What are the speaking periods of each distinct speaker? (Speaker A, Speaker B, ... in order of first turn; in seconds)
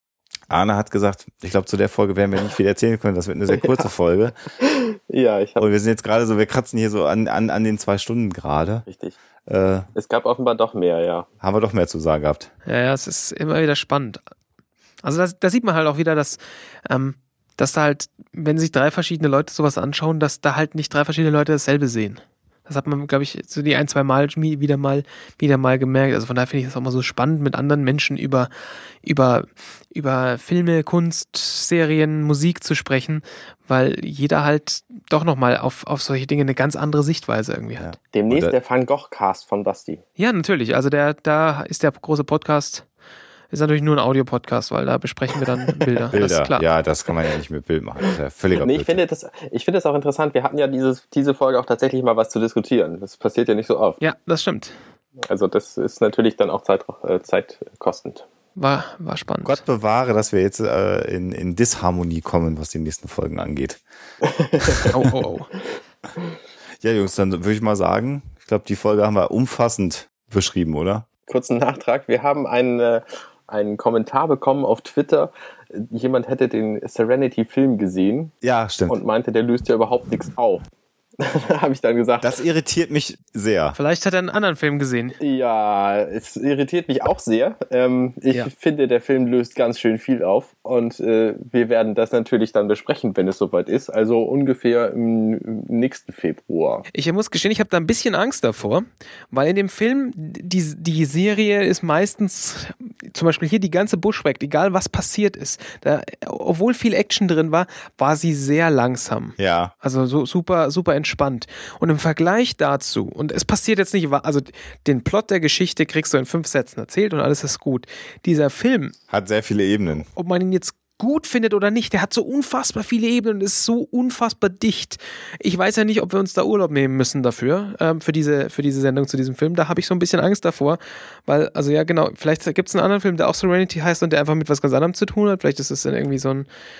Speaker A: 0.5-4.4, 5.6-8.9, 9.5-9.9, 11.4-12.5, 37.8-38.5, 46.1-49.0, 59.4-63.8, 64.6-65.0, 66.8-71.1, 78.4-79.0, 82.2-83.8, 109.4-109.7, 119.1-120.1
Speaker B: 3.5-3.9, 4.6-5.6, 8.9-9.2, 9.9-11.3, 38.1-40.0, 48.5-54.0, 55.2-58.2, 64.2-64.9, 71.3-78.3, 78.9-80.6, 81.2-82.3, 85.2-96.8
Speaker C: 12.7-14.2, 15.0-28.5, 29.0-37.9, 40.2-42.9, 43.5-46.6, 54.0-54.8, 58.6-59.6, 64.9-65.5, 83.8-85.2, 96.9-119.0, 120.1-136.5